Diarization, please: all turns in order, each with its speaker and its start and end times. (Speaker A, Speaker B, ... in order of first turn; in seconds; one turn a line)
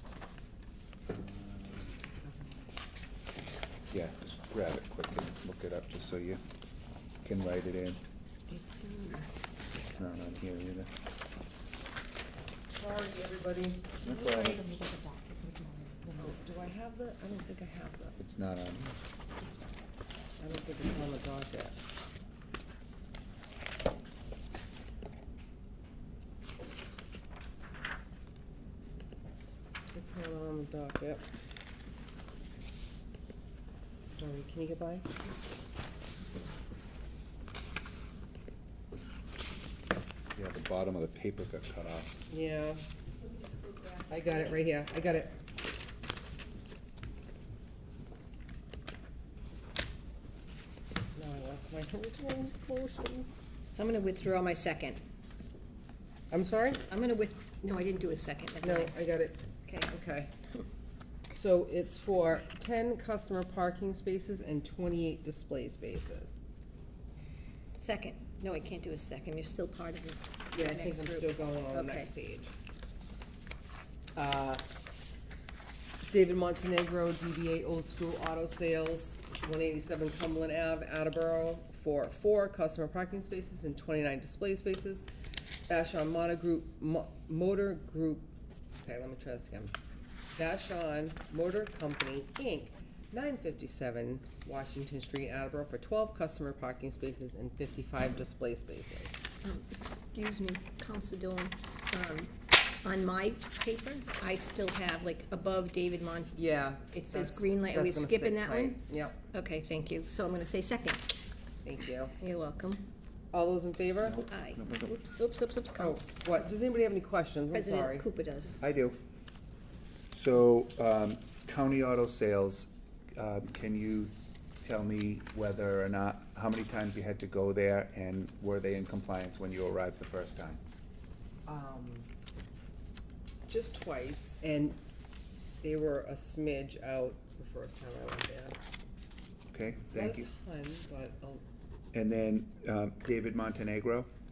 Speaker A: 1.1-2.0
Speaker A: 3.9-6.4
Speaker A: 7.2-8.0
Speaker B: 8.5-9.3
Speaker A: 9.9-10.9
Speaker C: 12.7-14.1
Speaker A: 14.0-14.8
Speaker B: 14.0-16.1
Speaker C: 16.1-18.2
Speaker A: 18.2-18.9
Speaker C: 20.4-21.8
Speaker C: 29.9-31.4
Speaker C: 34.0-35.1
Speaker A: 40.4-42.2
Speaker C: 42.3-42.8
Speaker B: 43.2-44.5
Speaker C: 44.1-45.4
Speaker C: 51.2-53.3
Speaker B: 53.7-55.0
Speaker C: 56.3-56.8
Speaker B: 56.9-59.0
Speaker C: 58.6-60.3
Speaker C: 61.3-66.4
Speaker B: 67.8-72.1
Speaker C: 70.5-72.5
Speaker C: 74.2-74.6
Speaker C: 76.1-85.0
Speaker C: 85.7-89.7
Speaker C: 90.4-99.2
Speaker B: 99.4-106.4
Speaker C: 106.4-109.2
Speaker B: 106.9-108.8
Speaker B: 109.3-111.2
Speaker C: 111.7-112.1
Speaker B: 112.2-112.8
Speaker C: 113.3-114.2
Speaker A: 114.0-114.9
Speaker B: 114.2-116.2
Speaker C: 115.8-118.1
Speaker B: 117.5-118.6
Speaker A: 118.6-119.0
Speaker A: 120.1-130.6
Speaker C: 131.5-132.1
Speaker C: 133.5-134.8
Speaker C: 135.6-138.6
Speaker A: 139.5-140.3
Speaker C: 139.9-141.4
Speaker A: 141.9-144.1